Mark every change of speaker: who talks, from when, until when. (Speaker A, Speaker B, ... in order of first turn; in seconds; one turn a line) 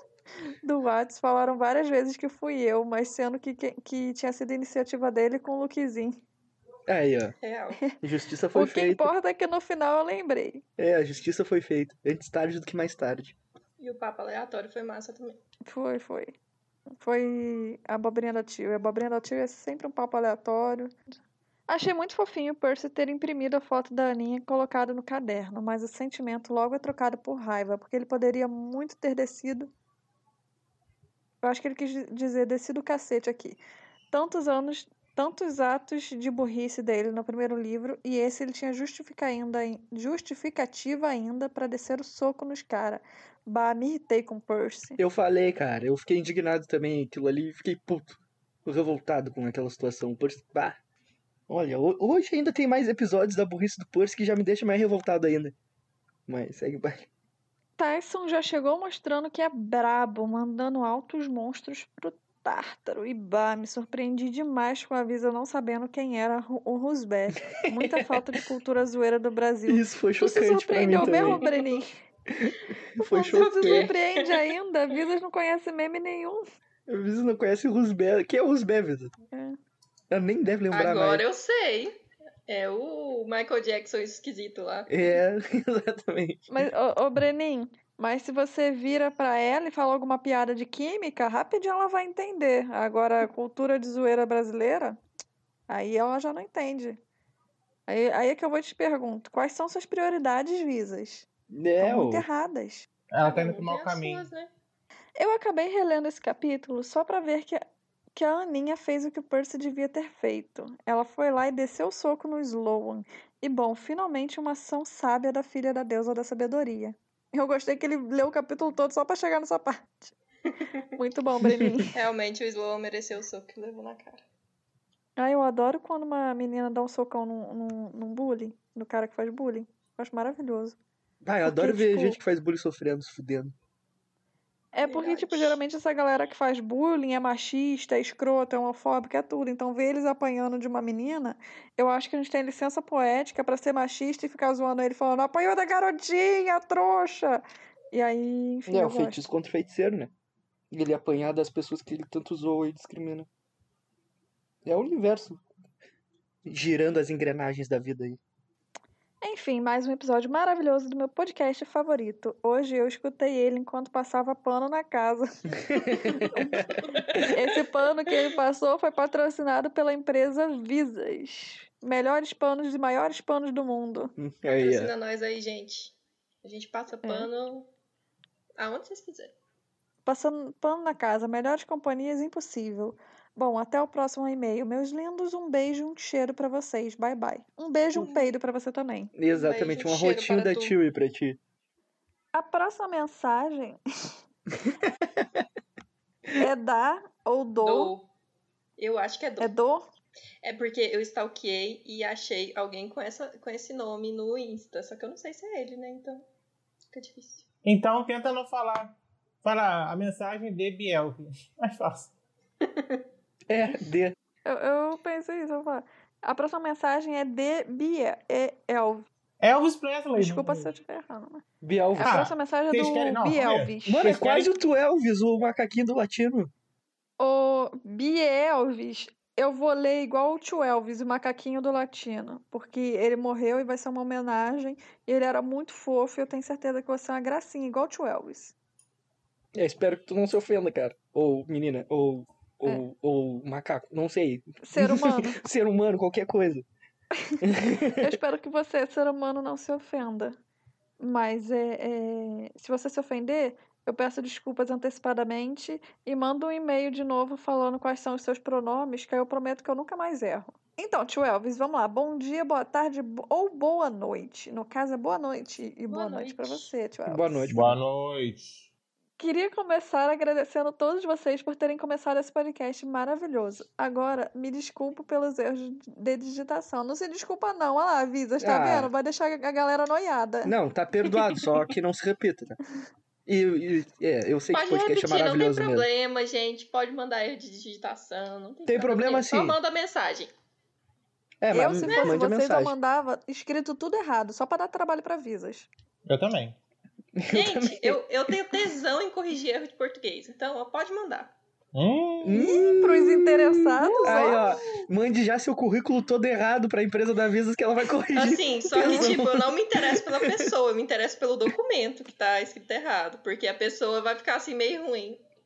Speaker A: 0.6-6.2
Speaker B: 6.9-7.3
Speaker C: 7.4-7.8
Speaker B: 8.0-9.1
Speaker A: 8.5-10.6
Speaker B: 10.8-13.3
Speaker C: 13.8-15.4
Speaker A: 15.7-16.3
Speaker A: 17.0-20.9
Speaker A: 21.7-29.7
Speaker A: 31.4-33.6
Speaker A: 34.1-45.0
Speaker B: 45.0-50.8
Speaker B: 51.5-55.5
Speaker B: 56.3-57.1
Speaker A: 57.8-71.9
Speaker B: 67.7-68.2
Speaker B: 69.7-71.4
Speaker C: 71.1-71.8
Speaker B: 72.3-73.9
Speaker A: 73.0-76.4
Speaker C: 73.2-74.5
Speaker B: 76.9-79.1
Speaker A: 79.3-79.6
Speaker B: 80.1-81.2
Speaker C: 80.7-84.9
Speaker B: 84.9-86.5
Speaker A: 86.5-95.0
Speaker A: 95.7-97.0
Speaker A: 97.9-101.2
Speaker B: 101.5-102.2
Speaker A: 101.8-102.9
Speaker D: 103.1-104.3
Speaker C: 103.2-104.5
Speaker A: 105.2-120.1
Speaker A: 120.9-121.9
Speaker B: 121.4-121.7
Speaker C: 121.9-124.2
Speaker A: 125.2-130.8
Speaker B: 131.2-133.5
Speaker A: 131.4-132.2
Speaker A: 134.7-149.2
Speaker C: 134.8-135.6
Speaker B: 148.7-150.1
Speaker B: 150.7-153.3
Speaker B: 154.6-155.4
Speaker B: 156.4-158.2
Speaker A: 159.2-166.7
Speaker B: 165.7-166.7
Speaker C: 166.9-167.2
Speaker A: 167.3-174.1
Speaker B: 174.2-174.9
Speaker C: 174.5-177.7
Speaker A: 177.0-177.3
Speaker C: 178.6-179.3
Speaker A: 180.1-189.1
Speaker C: 187.9-188.3
Speaker B: 189.2-191.4
Speaker C: 189.3-190.8
Speaker A: 192.3-193.8
Speaker B: 194.8-195.4
Speaker A: 196.4-197.9
Speaker C: 197.6-198.1
Speaker C: 198.8-199.5
Speaker A: 199.4-199.8
Speaker C: 200.4-206.2
Speaker C: 206.9-207.4
Speaker D: 207.6-212.1
Speaker C: 212.6-213.0
Speaker B: 213.5-214.2
Speaker A: 214.4-219.1
Speaker D: 219.4-220.7
Speaker A: 220.2-221.4
Speaker B: 221.6-222.3
Speaker A: 221.9-224.0
Speaker D: 222.0-224.5
Speaker B: 223.8-226.5
Speaker A: 227.2-238.5
Speaker B: 239.5-246.7
Speaker A: 244.6-245.4
Speaker B: 247.4-248.2
Speaker A: 248.0-250.4
Speaker A: 251.0-267.5
Speaker C: 265.9-266.7
Speaker B: 267.1-267.8
Speaker D: 267.5-268.7
Speaker A: 269.2-280.5
Speaker B: 278.4-278.9
Speaker B: 280.4-282.6
Speaker B: 283.2-285.9
Speaker C: 284.5-290.3
Speaker B: 288.7-289.6
Speaker B: 291.4-292.7
Speaker A: 291.5-295.7
Speaker C: 291.8-292.2
Speaker D: 296.1-296.6
Speaker B: 297.1-298.6
Speaker C: 297.3-301.3
Speaker D: 301.7-302.4
Speaker B: 302.2-310.5
Speaker A: 302.3-304.5
Speaker C: 304.0-304.8
Speaker C: 308.1-315.2
Speaker A: 308.8-309.1